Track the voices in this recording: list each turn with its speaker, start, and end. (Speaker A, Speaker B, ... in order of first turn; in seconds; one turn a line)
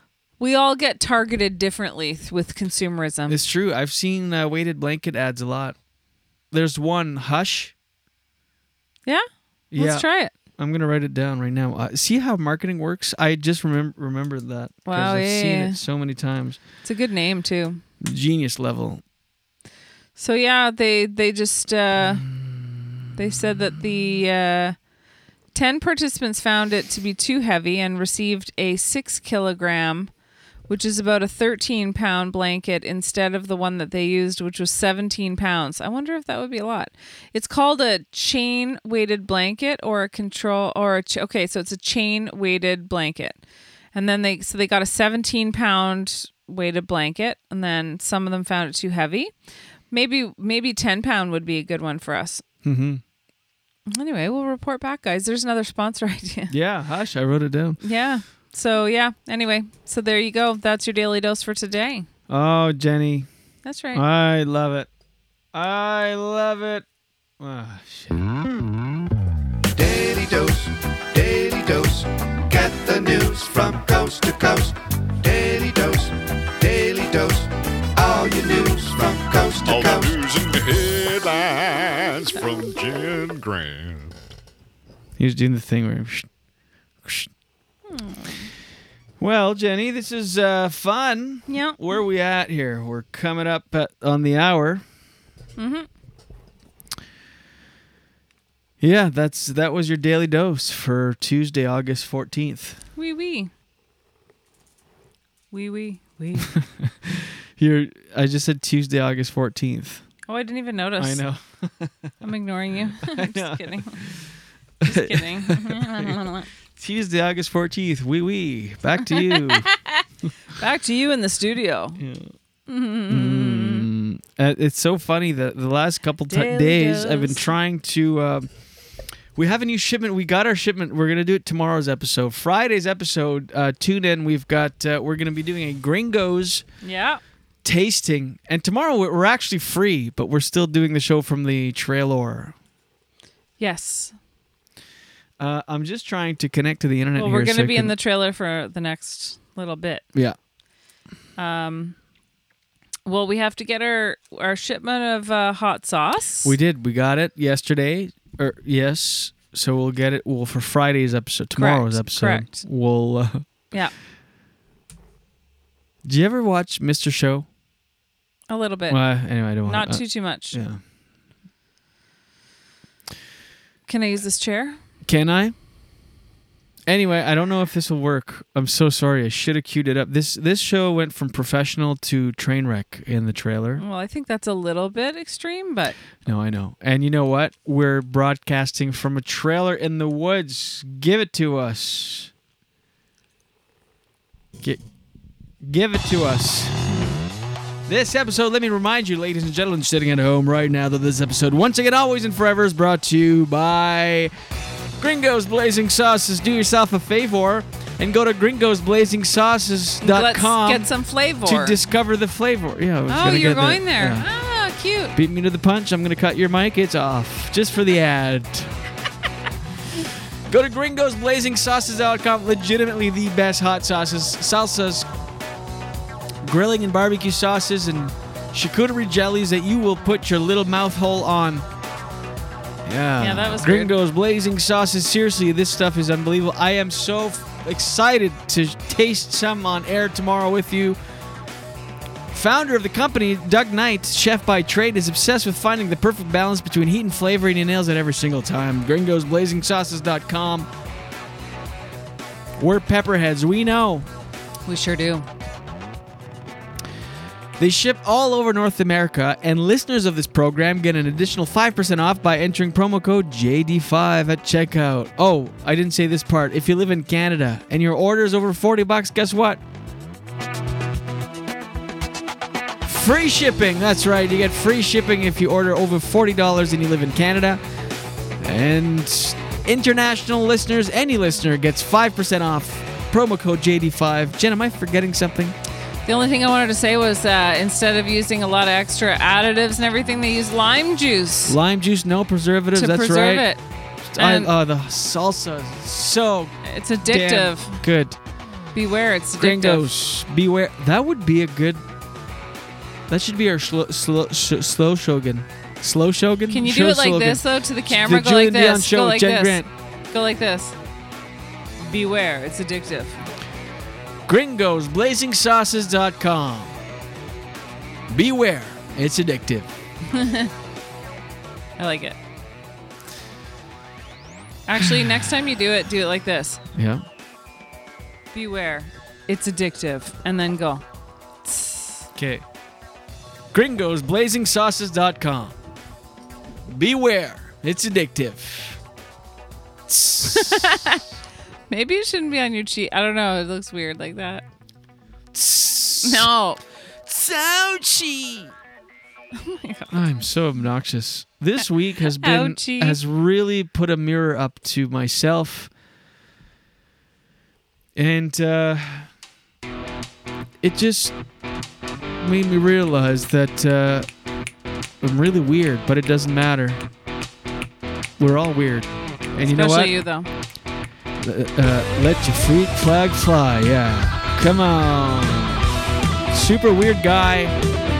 Speaker A: 0.4-3.4
Speaker B: 3.3-5.7
Speaker B: 6.5-7.7
Speaker A: 9.1-10.3
Speaker B: 9.7-16.6
Speaker A: 14.8-15.8
Speaker A: 16.8-17.8
Speaker B: 18.0-19.0
Speaker A: 20.1-22.2
Speaker B: 22.2-23.1
Speaker A: 23.1-24.8
Speaker A: 25.5-30.1
Speaker A: 30.7-43.4
Speaker A: 43.9-49.3
Speaker A: 49.9-52.4
Speaker B: 52.6-53.0
Speaker A: 53.9-56.5
Speaker B: 56.5-57.8
Speaker A: 57.8-62.1
Speaker B: 62.3-63.3
Speaker A: 63.6-64.0
Speaker B: 63.9-64.9
Speaker B: 65.5-66.8
Speaker B: 67.4-68.2
Speaker C: 79.6-84.1
Speaker B: 85.2-86.3
Speaker B: 87.0-87.3
Speaker A: 87.9-88.5
Speaker B: 89.2-94.8
Speaker A: 91.5-91.8
Speaker A: 95.6-95.9
Speaker B: 98.8-102.8
Speaker A: 103.0-103.5
Speaker A: 105.5-106.5
Speaker B: 106.5-110.0
Speaker A: 110.3-111.2
Speaker B: 111.0-112.1
Speaker A: 112.2-114.0
Speaker B: 113.0-114.3
Speaker B: 114.8-116.2
Speaker A: 114.9-116.5
Speaker B: 116.8-119.7
Speaker A: 119.1-120.0
Speaker A: 120.6-122.0
Speaker B: 122.0-122.3
Speaker A: 122.7-123.8
Speaker B: 123.1-128.5
Speaker A: 126.3-127.4
Speaker B: 129.3-136.6
Speaker A: 136.8-137.2
Speaker B: 137.6-142.5
Speaker A: 143.6-144.1
Speaker B: 145.4-147.9
Speaker A: 147.2-150.0
Speaker A: 151.4-151.9
Speaker A: 153.1-156.5
Speaker B: 156.4-163.4
Speaker A: 161.6-162.6
Speaker B: 166.0-167.5
Speaker A: 168.5-169.0
Speaker B: 168.9-170.8
Speaker A: 169.6-170.6
Speaker A: 173.9-174.8
Speaker B: 175.0-175.5
Speaker B: 176.9-183.8
Speaker A: 183.8-185.9
Speaker B: 186.2-192.3
Speaker B: 195.6-196.8
Speaker B: 197.9-204.3
Speaker B: 205.0-210.9
Speaker A: 210.0-211.8
Speaker B: 211.4-214.2
Speaker A: 213.1-215.1
Speaker B: 215.1-218.7
Speaker B: 220.5-225.1
Speaker B: 226.4-231.6
Speaker B: 232.8-241.0
Speaker A: 233.2-233.9
Speaker B: 242.3-250.7
Speaker B: 252.6-254.1
Speaker A: 254.7-255.3
Speaker B: 257.6-269.6
Speaker B: 272.9-277.6
Speaker B: 278.4-285.6
Speaker A: 286.1-291.6
Speaker B: 291.5-293.5
Speaker A: 292.7-293.6
Speaker B: 294.1-298.2
Speaker A: 294.2-294.5
Speaker A: 296.6-297.8
Speaker A: 298.7-299.8
Speaker B: 299.4-301.8
Speaker B: 303.1-309.7
Speaker A: 306.5-310.7
Speaker A: 311.8-313.2
Speaker B: 314.3-316.7
Speaker B: 318.1-319.7
Speaker A: 320.1-320.5
Speaker A: 321.8-322.2
Speaker A: 324.7-326.6
Speaker B: 324.8-325.2
Speaker B: 326.8-327.0
Speaker A: 328.3-330.8
Speaker A: 331.4-332.1
Speaker B: 332.1-332.4
Speaker B: 333.5-335.5
Speaker B: 336.7-338.8
Speaker B: 339.9-340.9
Speaker A: 340.3-341.0
Speaker A: 341.7-344.4
Speaker B: 345.3-346.3
Speaker A: 346.0-346.6
Speaker B: 347.1-348.5
Speaker A: 349.4-350.0
Speaker B: 349.9-355.7
Speaker A: 352.2-353.0
Speaker B: 357.9-359.1
Speaker B: 360.6-361.1
Speaker B: 362.2-364.1
Speaker B: 365.0-366.8
Speaker B: 368.2-369.9
Speaker A: 369.4-370.3
Speaker B: 371.2-375.6
Speaker B: 376.3-377.6